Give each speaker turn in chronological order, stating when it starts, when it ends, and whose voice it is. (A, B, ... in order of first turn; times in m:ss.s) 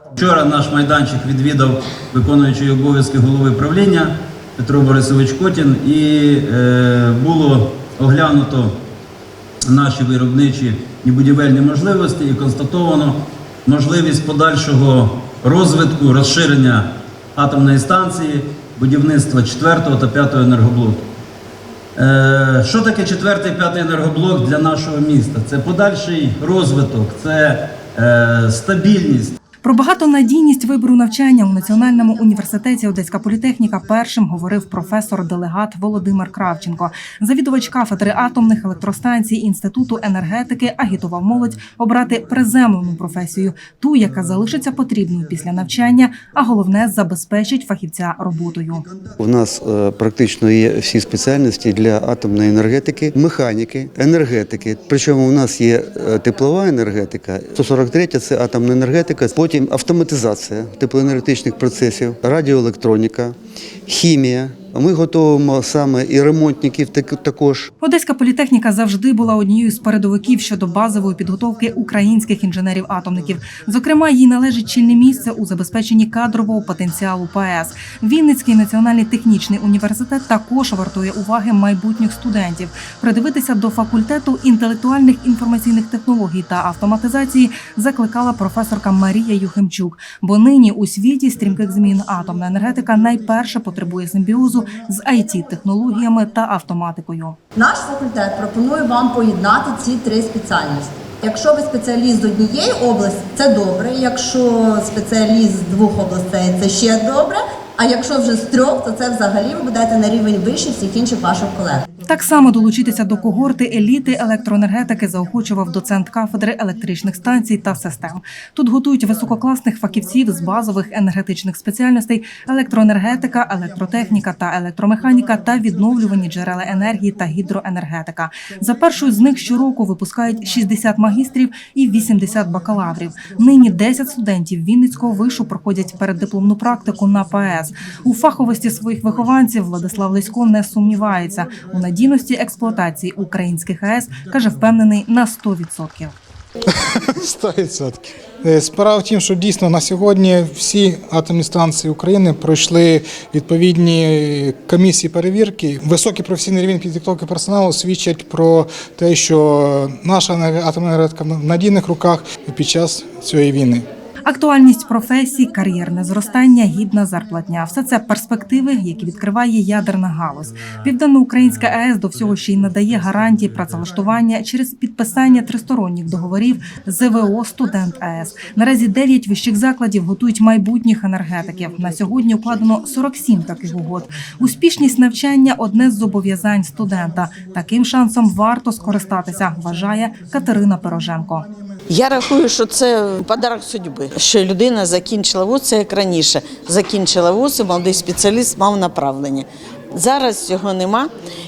0:00.2-0:08.8 A
0:09.6-0:21.0 A
0:22.0-0:29.4 A
0:29.6-0:48.8 B
0:49.2-1:03.3 C
1:03.9-1:07.7 C
1:07.8-1:37.4 B
1:37.6-1:51.8 D
1:52.1-2:26.2 B
2:26.7-2:43.8 E
2:44.2-3:11.5 B
3:11.9-3:21.1 F